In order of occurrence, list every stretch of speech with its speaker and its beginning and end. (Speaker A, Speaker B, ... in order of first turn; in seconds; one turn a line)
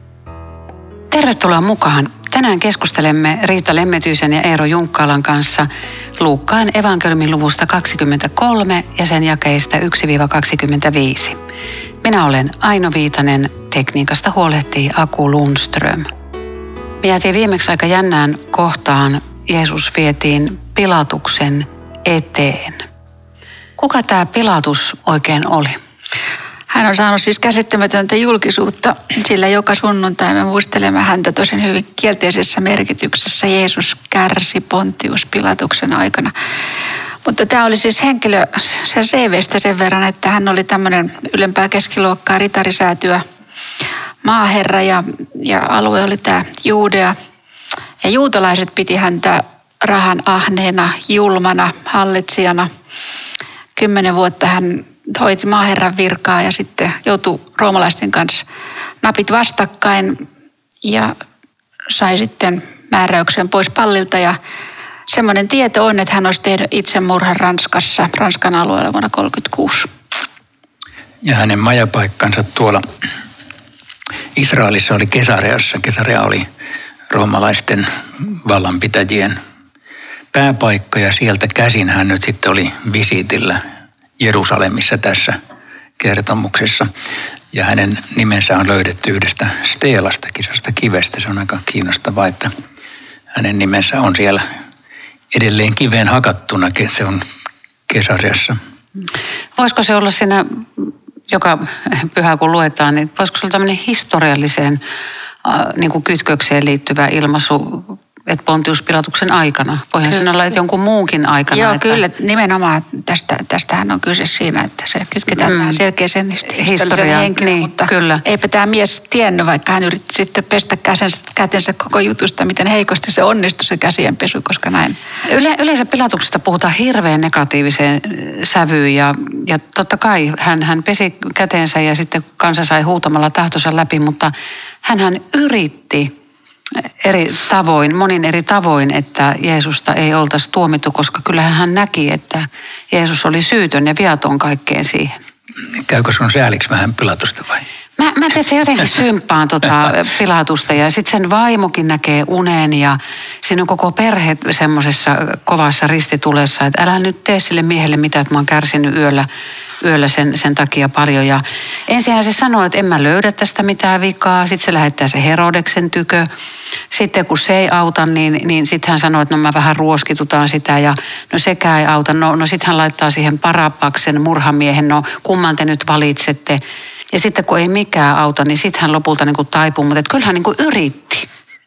Speaker A: 1.1-11.4
Speaker A: 12.0-16.1
Speaker A: 17.0-22.9
Speaker A: 23.8-25.8
Speaker B: 26.7-36.3
Speaker B: 37.2-43.2
Speaker B: 44.2-47.1
Speaker B: 48.0-52.7
Speaker B: 53.8-58.4
Speaker B: 59.0-60.2
Speaker B: 60.8-61.1
Speaker B: 61.9-64.4
Speaker B: 65.1-69.9
Speaker C: 71.2-72.8
Speaker C: 74.4-76.5
Speaker C: 77.1-79.4
Speaker C: 80.3-83.6
Speaker C: 84.2-85.4
Speaker C: 86.0-86.9
Speaker C: 87.5-92.5
Speaker C: 93.3-94.4
Speaker C: 95.3-97.2
Speaker C: 97.9-98.6
Speaker A: 99.6-104.8
Speaker A: 105.4-112.0
Speaker B: 111.5-125.0
Speaker A: 115.4-115.8
Speaker A: 116.6-118.2
Speaker A: 125.3-134.3
Speaker A: 134.8-136.1
Speaker A: 137.0-145.1
Speaker C: 145.8-147.7
Speaker A: 148.0-159.3
Speaker A: 159.8-166.3
Speaker A: 166.9-176.6
Speaker A: 177.1-181.3